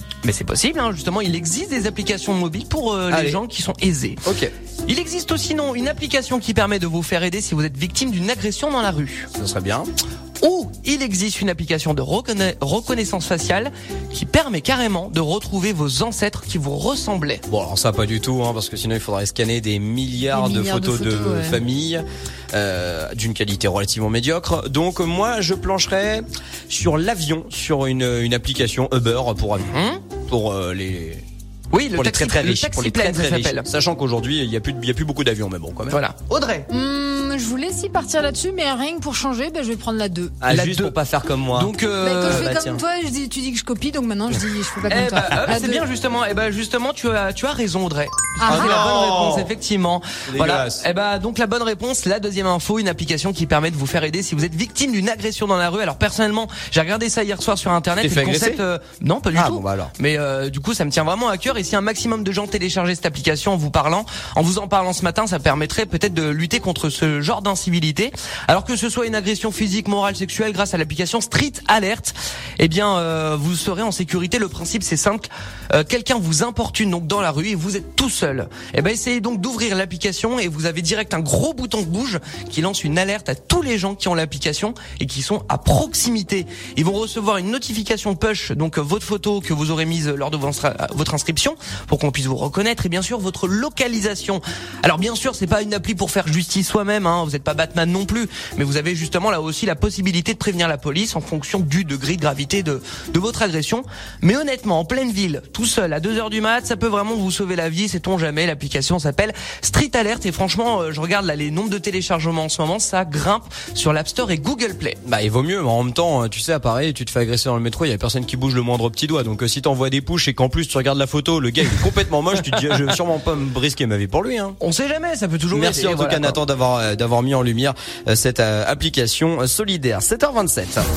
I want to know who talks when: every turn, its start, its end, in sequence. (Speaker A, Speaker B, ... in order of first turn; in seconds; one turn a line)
Speaker A: 0.2-4.2
Speaker B: 3.1-3.4
Speaker B: 4.2-4.5
Speaker A: 4.9-9.3
Speaker B: 9.3-9.9
Speaker A: 10.4-17.4
Speaker B: 17.5-31.2
Speaker C: 20.3-21.6
Speaker A: 29.7-30.0
Speaker A: 31.7-33.6
Speaker B: 31.9-36.0
Speaker A: 35.9-36.7
Speaker C: 36.7-40.4
Speaker B: 40.4-42.8
Speaker A: 40.5-41.0
Speaker A: 41.5-42.5
Speaker C: 42.0-45.9
Speaker A: 44.9-115.0
Speaker C: 48.4-48.8
Speaker B: 48.5-49.5
Speaker B: 50.2-50.8
Speaker B: 58.0-58.6
Speaker B: 59.3-59.9
Speaker B: 115.0-124.5
Speaker A: 124.6-126.4
Speaker B: 125.5-130.8